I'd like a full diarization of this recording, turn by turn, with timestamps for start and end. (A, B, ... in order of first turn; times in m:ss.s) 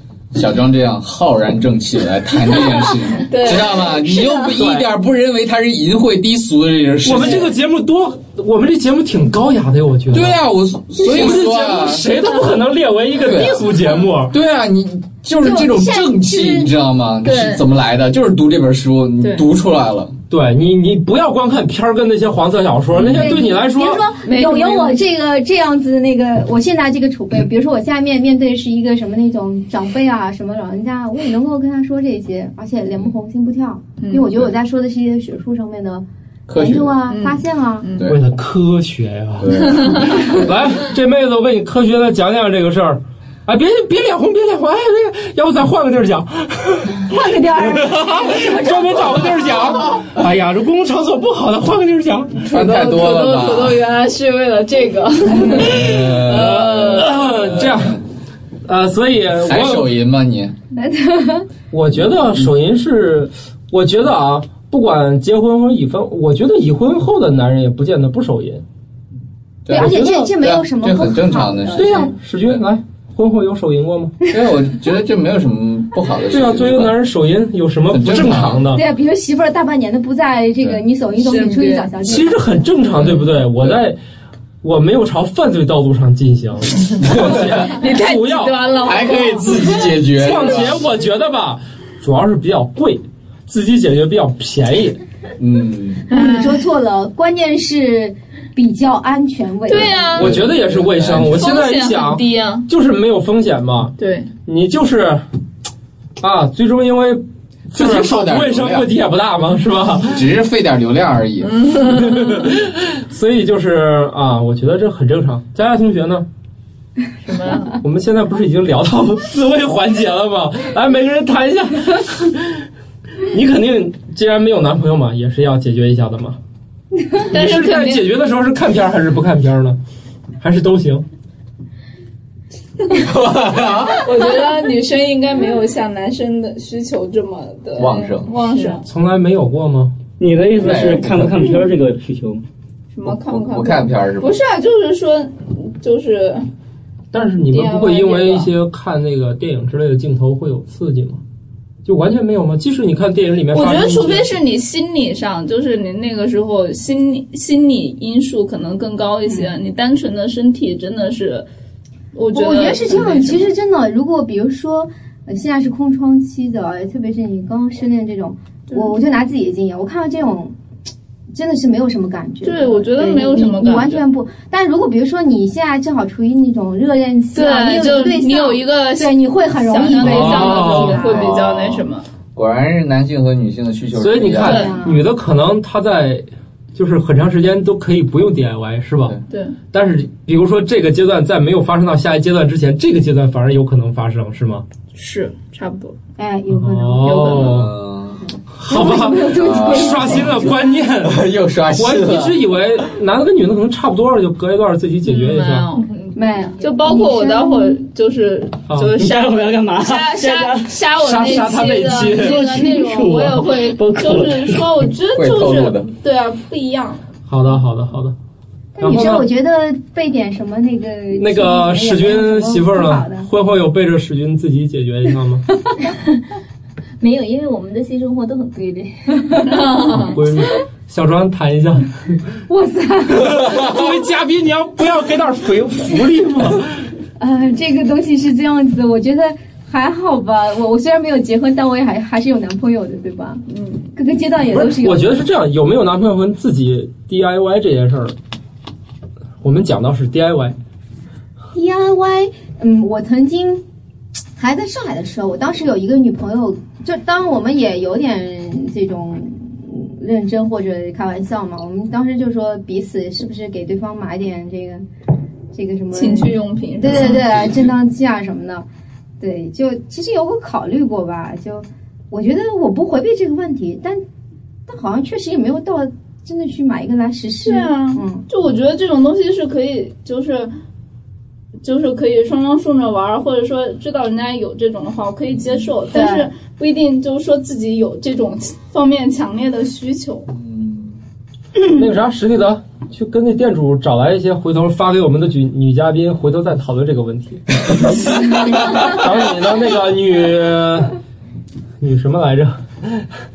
0:00.3-0:07.5 A
0:03.2-0:04.5 B
0:04.6-0:04.9 C
0:07.0-0:10.4 C
0:10.1-0:12.1 A
0:11.0-0:14.3 C
0:13.2-0:20.1 A
0:15.4-0:16.7 D
0:17.2-0:17.6 B
0:20.3-0:24.0 C
0:22.9-0:23.4 A
0:23.1-0:37.9 D
0:24.2-0:25.0 B
0:34.0-0:34.4 B
0:36.5-0:37.0 A
0:37.1-0:38.0 B
0:37.9-0:38.2 A
0:38.0-0:52.4 C
0:39.4-0:40.3 A
0:39.7-0:40.1 B
0:47.0-0:49.7 D
0:52.4-0:57.1 B
0:52.4-0:53.8 A
0:55.4-0:58.0 C
0:55.4-0:58.0 A
0:58.6-0:59.9 C
0:59.4-1:00.5 A
1:00.7-1:01.5 D
1:01.7-1:08.6 C
1:09.6-1:12.6 A
1:09.7-1:10.3 C
1:09.7-1:12.1 D
1:11.7-1:14.1 C
1:14.3-1:17.0 A
1:16.3-1:18.8 C
1:17.9-1:18.6 A
1:18.7-1:22.4 D
1:21.2-1:21.9 B
1:22.0-1:24.0 C
1:23.0-1:23.8 A
1:24.6-1:28.6 C
1:27.0-1:27.5 A
1:27.6-1:30.0 B
1:28.8-1:30.8 A
1:30.1-1:35.0 C
1:35.4-1:36.0 A
1:36.1-1:36.6 B
1:36.1-1:40.2 D
1:39.7-1:40.3 B
1:39.8-1:41.5 A
1:40.1-1:43.9 C
1:41.3-1:42.6 B
1:44.0-1:44.3 B
1:44.4-1:45.2 C
1:46.2-1:50.2 C
1:47.7-1:48.9 A
1:50.1-1:51.5 A
1:51.4-1:52.4 B
1:51.9-1:56.2 C
1:57.2-1:57.7 B
1:57.7-2:02.6 C
2:03.2-2:06.4 C
2:07.3-2:08.0 B
2:07.3-2:09.8 C
2:10.4-2:11.0 C
2:12.9-2:14.1 A
2:14.0-2:18.8 B
2:17.8-2:18.3 A
2:18.8-2:19.9 C
2:20.2-2:22.4 E
2:20.6-2:21.4 A
2:22.9-2:26.5 B
2:23.0-2:24.4 A
2:27.1-2:31.2 C
2:27.5-2:28.5 B
2:31.8-2:34.3 C
2:33.5-2:41.4 B
2:39.3-2:39.5 D
2:42.1-2:43.5 B
2:42.3-2:50.5 D
2:51.3-3:01.3 D
2:52.4-2:54.0 B
2:57.3-3:02.0 B
3:00.0-3:01.0 C
3:01.0-3:04.6 A
3:03.9-3:09.2 C
3:04.3-3:05.0 D
3:04.4-3:04.8 B
3:09.3-3:09.5 B
3:09.7-3:14.6 C
3:14.9-3:15.9 B
3:16.2-3:17.3 D
3:16.5-3:17.7 C
3:17.0-3:17.5 B
3:17.2-3:18.2 A
3:18.3-3:20.5 D
3:18.5-3:25.7 C
3:19.2-3:22.4 A
3:25.0-3:25.9 B
3:26.0-3:26.4 F
3:26.1-3:27.8 D
3:26.6-3:37.0 B
3:28.7-3:28.9 C
3:29.0-3:30.7 E
3:31.0-3:32.4 C
3:32.1-3:34.8 E
3:35.1-3:35.9 A
3:37.3-3:38.1 C
3:38.8-3:43.3 D
3:38.8-3:39.3 C
3:41.1-3:45.4 C
3:47.0-3:49.3 F
3:49.4-3:50.2 B
3:49.9-3:52.2 C
3:52.5-3:53.9 D
3:53.2-3:56.9 C
3:57.2-4:03.4 D
4:03.5-4:03.9 B
4:03.9-4:05.1 D
4:04.5-4:08.2 C
4:09.4-4:10.5 C
4:11.5-4:13.6 D
4:14.4-4:24.8 D
4:25.5-4:28.6 D
4:25.9-4:27.5 B
4:29.2-4:34.0 D
4:34.7-4:38.2 D
4:37.4-4:40.5 B
4:41.6-4:50.3 B
4:45.9-4:46.3 D
4:50.3-4:51.0 A
4:51.7-5:00.9 C
4:58.3-4:58.9 A
5:01.8-5:03.0 C